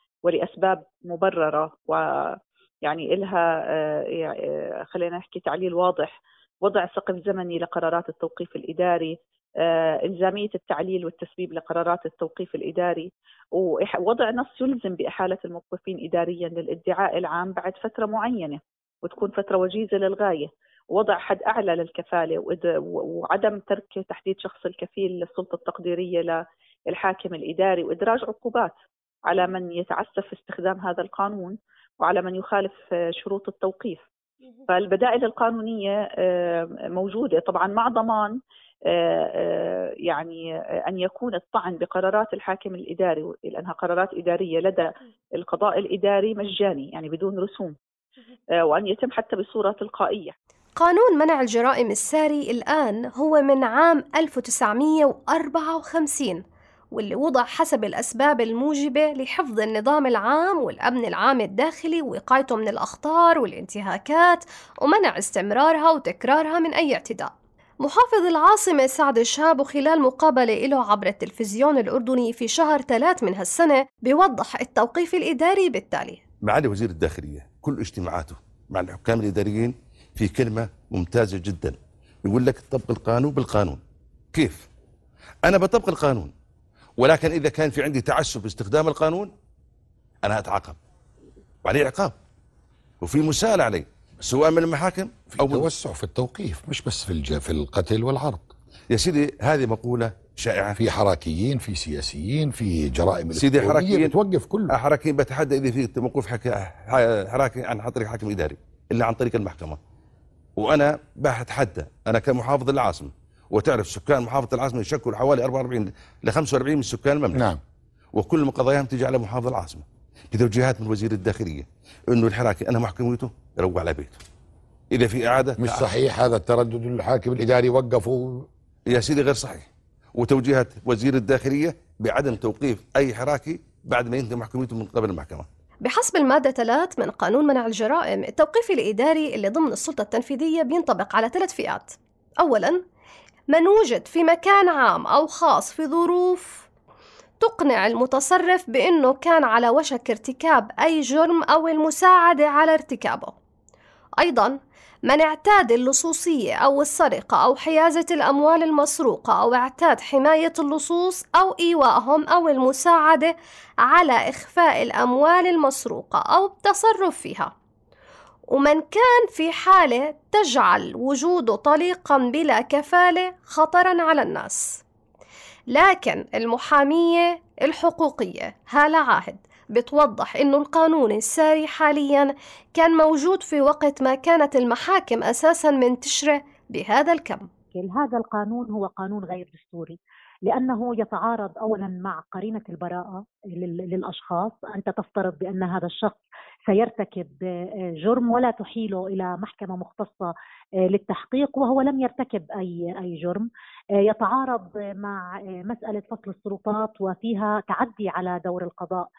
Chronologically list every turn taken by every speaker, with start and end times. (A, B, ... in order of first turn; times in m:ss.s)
0:00.3-0:02.3 A
0:02.9-0:04.4 A
0:04.9-0:34.1 A
0:34.7-0:38.4 A
0:38.9-0:47.8 A
0:48.6-0:50.3 A
0:50.8-0:56.4 B
0:56.9-1:07.3 B
1:07.8-1:16.2 B
1:16.5-1:23.8 C
1:24.3-1:24.7 C
1:25.5-1:26.3 C
1:27.0-1:29.3 C
1:30.2-1:30.8 C
1:31.6-1:32.2 C
1:33.0-1:35.7 C
1:35.3-1:38.5 D
1:38.9-1:40.8 C
1:40.8-1:44.7 D
1:43.4-1:44.1 C
1:44.7-1:49.8 C
1:50.6-1:57.4 C
1:57.3-1:57.6 D
1:58.2-2:04.2 C
2:04.9-2:06.0 C
2:05.6-2:08.5 D
2:08.9-2:15.5 C
2:15.8-2:22.8 B
2:23.5-2:26.7 B
2:27.4-2:33.3 B
2:34.2-2:34.6 B
2:35.1-2:47.5 B
2:48.5-2:54.8 B
2:55.7-3:07.5 B
3:07.7-3:17.4 E
3:18.0-3:20.3 E
3:20.9-3:23.5 E
3:24.0-3:29.1 E